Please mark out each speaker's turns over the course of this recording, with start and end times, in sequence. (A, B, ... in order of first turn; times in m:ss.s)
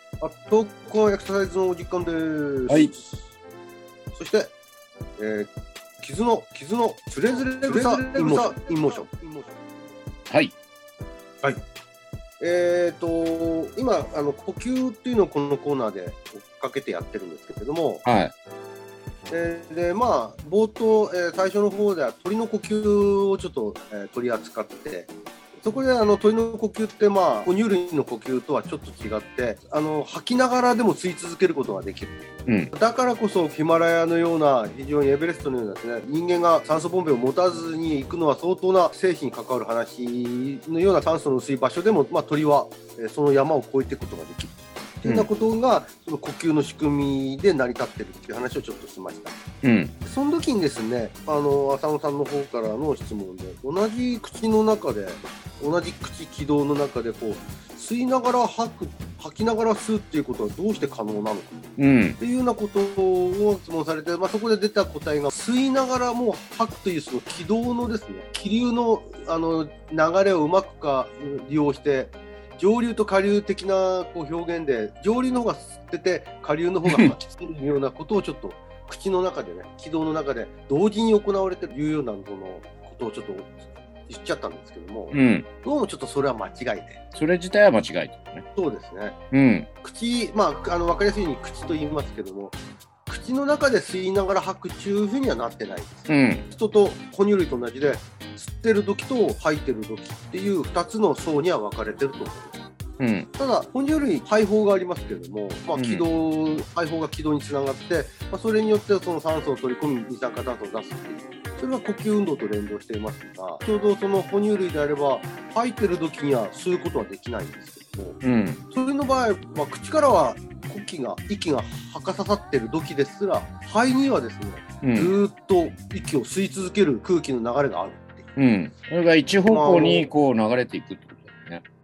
0:00.2-0:03.3 A
0:04.1-0:04.5 A
0:05.2-0:09.7 A
0:12.4-0:18.0 A
0:18.0-0:18.3 B
0:19.3-0:49.4 A
0:49.6-0:49.9 B
0:50.0-1:27.0 A
1:01.8-1:02.2 B
1:25.1-1:25.4 B
1:27.1-1:28.4 B
1:28.5-1:29.2 A
1:29.3-1:29.7 B
1:29.8-1:32.6 A
1:33.1-1:42.6 A
1:36.1-1:36.4 B
1:43.0-1:43.3 B
1:43.3-2:08.3 A
1:45.8-1:46.1 B
1:58.2-1:58.6 B
2:04.8-2:05.1 B
2:08.4-2:11.6 B
2:09.4-2:10.1 A